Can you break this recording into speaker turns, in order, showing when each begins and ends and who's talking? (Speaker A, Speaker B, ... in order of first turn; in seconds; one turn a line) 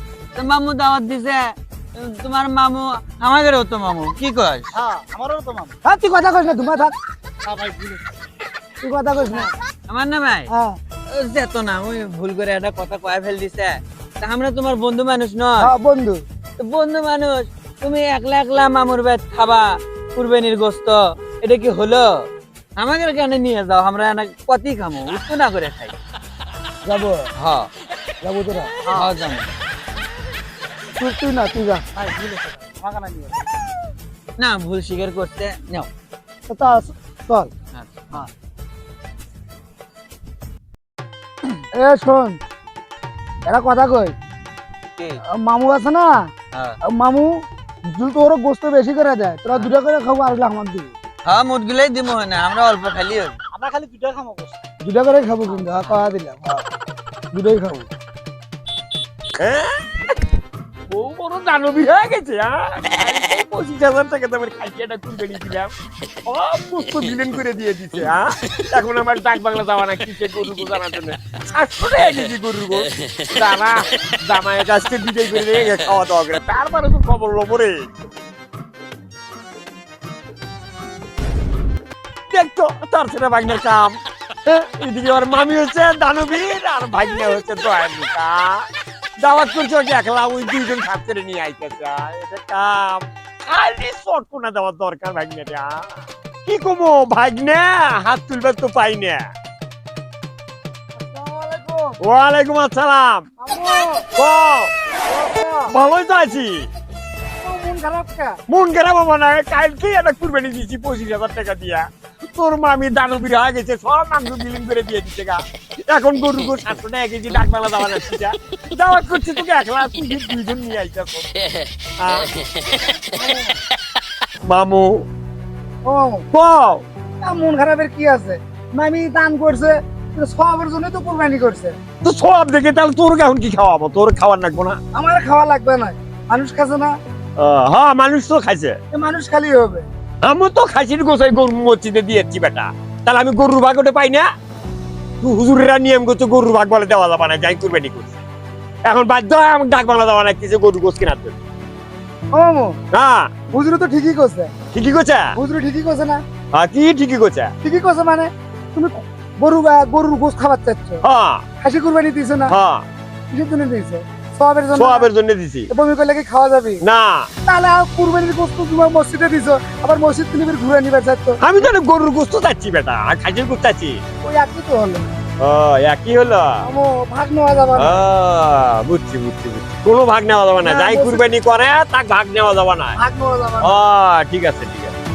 Speaker A: 0.3-4.7
Speaker B: 4.7-5.8
Speaker C: 5.8-6.9
Speaker B: 7.4-8.1
Speaker C: 8.8-9.4
Speaker A: 9.3-10.5
Speaker A: 11.1-15.7
Speaker C: 15.6-16.2
Speaker A: 16.6-22.2
Speaker A: 22.8-25.9
Speaker C: 26.9-27.3
Speaker A: 27.4-27.7
Speaker C: 28.2-28.7
Speaker A: 28.9-29.5
Speaker C: 31.0-31.9
Speaker B: 31.9-33.5
Speaker A: 34.4-35.9
Speaker C: 36.5-37.5
Speaker A: 37.7-38.2
Speaker C: 41.7-42.4
Speaker C: 43.5-44.1
Speaker C: 45.4-46.1
Speaker A: 46.5-46.8
Speaker C: 46.9-47.3
Speaker C: 47.9-50.9
Speaker A: 51.2-53.4
Speaker B: 53.5-54.6
Speaker C: 54.8-56.6
Speaker A: 55.5-56.0
Speaker C: 57.3-57.9
Speaker D: 59.4-59.8
Speaker D: 60.9-65.7
Speaker D: 66.3-77.9
Speaker D: 82.3-88.7
Speaker D: 89.2-99.3
Speaker C: 101.0-102.0
Speaker D: 102.0-103.3
Speaker C: 103.4-104.1
Speaker D: 104.1-104.9
Speaker C: 105.1-105.8
Speaker D: 105.7-106.7
Speaker C: 107.4-108.4
Speaker D: 108.5-121.3
Speaker D: 122.0-122.3
Speaker C: 123.2-123.6
Speaker D: 124.5-125.0
Speaker C: 125.9-126.3
Speaker D: 126.3-126.8
Speaker C: 127.2-131.8
Speaker D: 132.0-134.8
Speaker C: 135.0-136.9
Speaker D: 137.4-138.8
Speaker C: 138.9-139.8
Speaker D: 140.2-144.3
Speaker D: 145.2-148.2
Speaker D: 148.9-151.4
Speaker C: 152.3-152.8
Speaker D: 152.9-153.3
Speaker C: 153.5-154.5
Speaker D: 154.7-155.3
Speaker C: 155.4-156.2
Speaker D: 156.5-157.5
Speaker C: 157.7-161.0
Speaker D: 161.0-161.4
Speaker C: 161.6-162.5
Speaker D: 162.5-162.8
Speaker C: 163.3-165.1
Speaker D: 164.7-165.7
Speaker C: 165.7-166.8
Speaker D: 166.8-167.3
Speaker C: 167.5-171.4
Speaker D: 171.4-174.0
Speaker C: 174.2-175.1
Speaker D: 175.4-176.7
Speaker C: 176.6-178.0
Speaker D: 177.8-183.0
Speaker C: 180.6-181.2
Speaker C: 183.0-183.8
Speaker D: 183.6-184.9